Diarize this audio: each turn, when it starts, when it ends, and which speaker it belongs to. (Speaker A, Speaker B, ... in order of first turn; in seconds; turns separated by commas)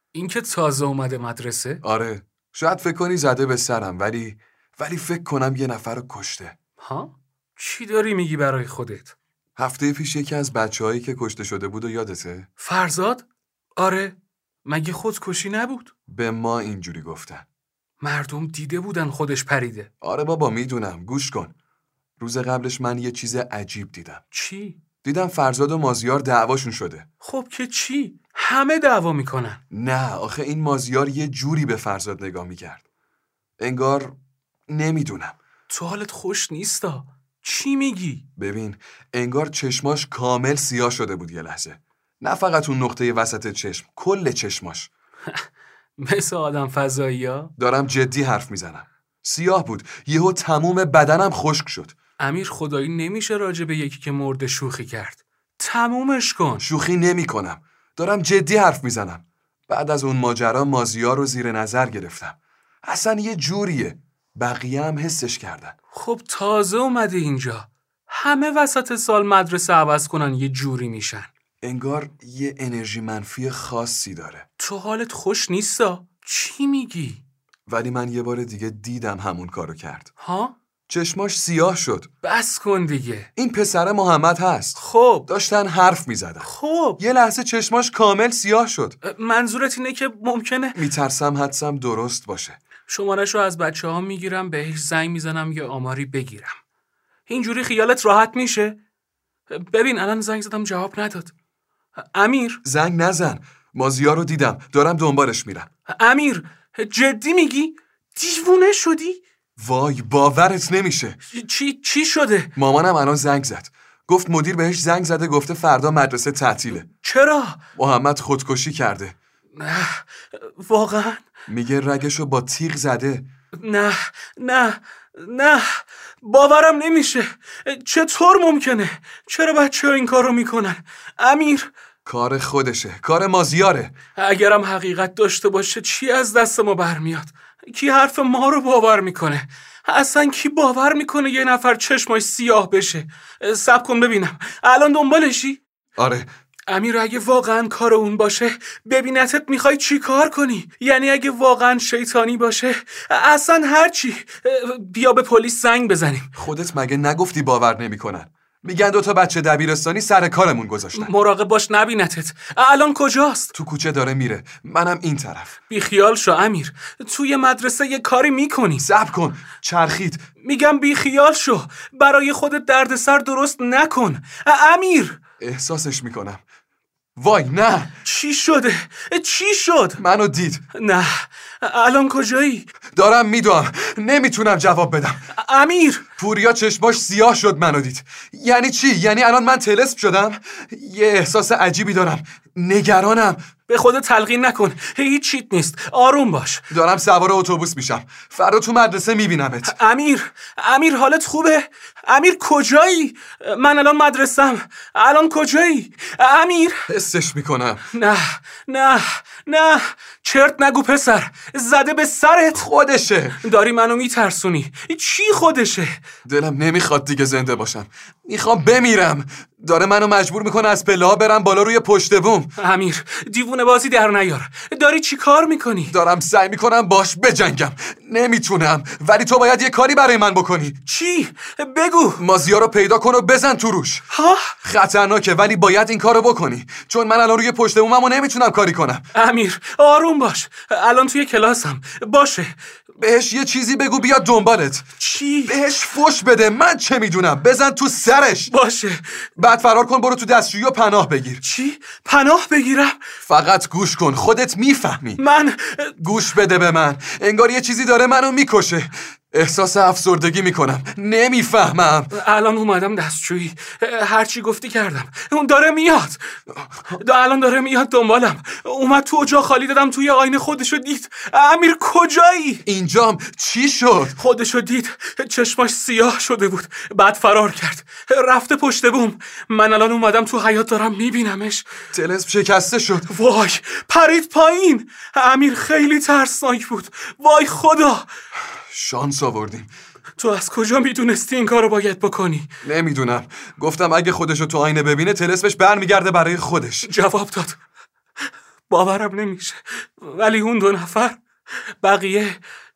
Speaker A: 0.1-1.8, Speaker B: 1.8-6.5, Speaker A: 6.8-9.1, Speaker B: 9.6-12.5, Speaker A: 12.6-13.2, Speaker A: 13.8-15.9, Speaker B: 16.1-17.4, Speaker A: 18.0-19.9, Speaker B: 20.0-21.5, Speaker B: 22.2-24.2, Speaker A: 24.3-24.8, Speaker B: 25.0-27.1, Speaker A: 27.2-29.6, Speaker B: 29.7-32.8, Speaker B: 33.6-34.1, Speaker B: 34.7-35.3, Speaker A: 35.7-38.2, Speaker B: 38.4-44.9, Speaker A: 46.0-47.5, Speaker B: 47.6-51.9, Speaker A: 52.2-56.6, Speaker B: 56.6-65.7, Speaker A: 65.9-71.3, Speaker B: 71.6-74.5, Speaker A: 74.6-77.2, Speaker B: 77.7-80.1, Speaker A: 80.2-80.5, Speaker B: 80.9-82.1, Speaker A: 82.2-83.3, Speaker B: 83.3-89.0, Speaker A: 84.8-85.3, Speaker A: 86.4-87.0, Speaker A: 89.0-90.8, Speaker B: 90.7-92.6, Speaker A: 92.9-96.6, Speaker A: 97.3-98.8, Speaker A: 99.5-101.3, Speaker A: 102.0-102.6, Speaker B: 102.6-105.7, Speaker A: 105.9-109.2, Speaker B: 109.6-111.2, Speaker A: 111.3-112.5, Speaker B: 112.5-116.9, Speaker A: 116.9-117.6, Speaker B: 117.8-119.2, Speaker A: 119.5-121.2, Speaker B: 121.5-123.2, Speaker A: 123.6-131.7, Speaker B: 132.1-133.9, Speaker A: 134.2-145.6, Speaker B: 146.0-146.3, Speaker A: 146.7-156.3, Speaker B: 156.3-161.1, Speaker A: 160.9-163.5, Speaker B: 163.5-165.6, Speaker A: 165.7-168.8, Speaker B: 168.8-170.2, Speaker A: 170.4-175.2, Speaker B: 175.4-176.4, Speaker B: 177.2-177.9, Speaker A: 178.0-180.0, Speaker B: 180.0-180.6, Speaker A: 180.7-182.7, Speaker B: 182.9-185.3, Speaker A: 185.3-186.0, Speaker B: 186.2-193.4, Speaker A: 193.7-196.7, Speaker B: 196.7-199.7, Speaker A: 199.6-206.8, Speaker B: 206.9-207.9, Speaker A: 207.9-212.7, Speaker B: 212.5-213.4, Speaker A: 213.4-216.0, Speaker B: 216.2-222.5, Speaker A: 222.6-225.9, Speaker B: 225.9-230.8, Speaker A: 230.8-232.2, Speaker B: 232.2-234.1, Speaker A: 234.1-234.5, Speaker B: 234.6-239.1, Speaker A: 239.1-242.5, Speaker B: 243.0-244.9, Speaker A: 245.0-245.6, Speaker B: 245.5-248.5, Speaker A: 248.5-249.2, Speaker B: 249.4-251.4, Speaker A: 251.4-253.0, Speaker B: 253.3-255.2, Speaker A: 255.2-256.0, Speaker B: 256.0-262.1, Speaker A: 262.1-272.6, Speaker B: 272.6-274.1, Speaker A: 274.1-281.7, Speaker B: 281.9-283.1, Speaker A: 283.1-288.1, Speaker B: 288.7-289.7, Speaker A: 290.2-292.5, Speaker B: 292.6-296.9, Speaker A: 296.8-297.6, Speaker A: 298.7-302.4